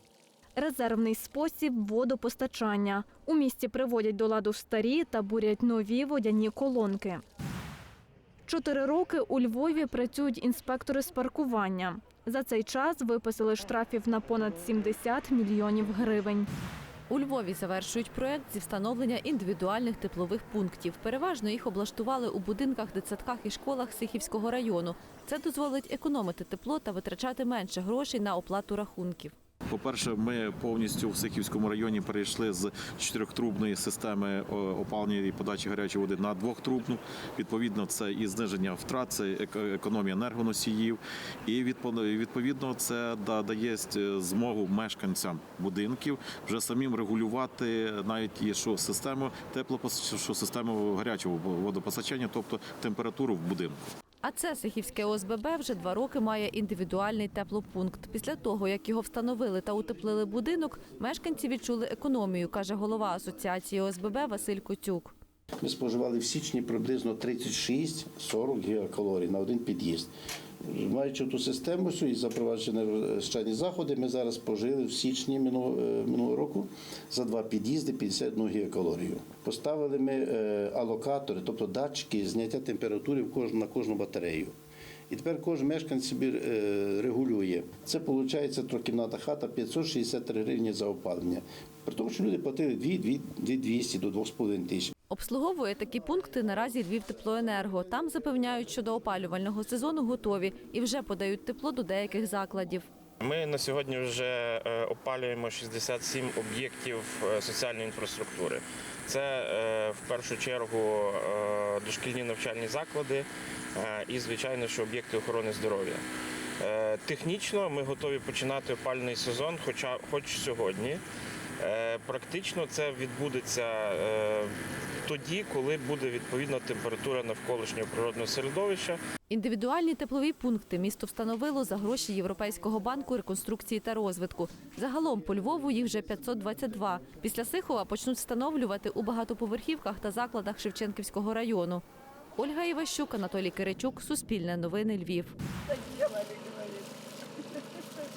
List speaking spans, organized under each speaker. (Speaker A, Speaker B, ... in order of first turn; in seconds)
Speaker A: 0.6-7.2, 8.4-16.5
Speaker B: 17.1-29.3, 54.2-65.1, 95.1-102.9, 129.3-141.8, 142.4-145.3
Speaker C: 29.7-53.8
Speaker D: 65.6-70.1, 70.6-84.5, 85.1-94.9
Speaker E: 103.2-116.0, 116.6-121.0, 121.6-124.5, 125.0-129.0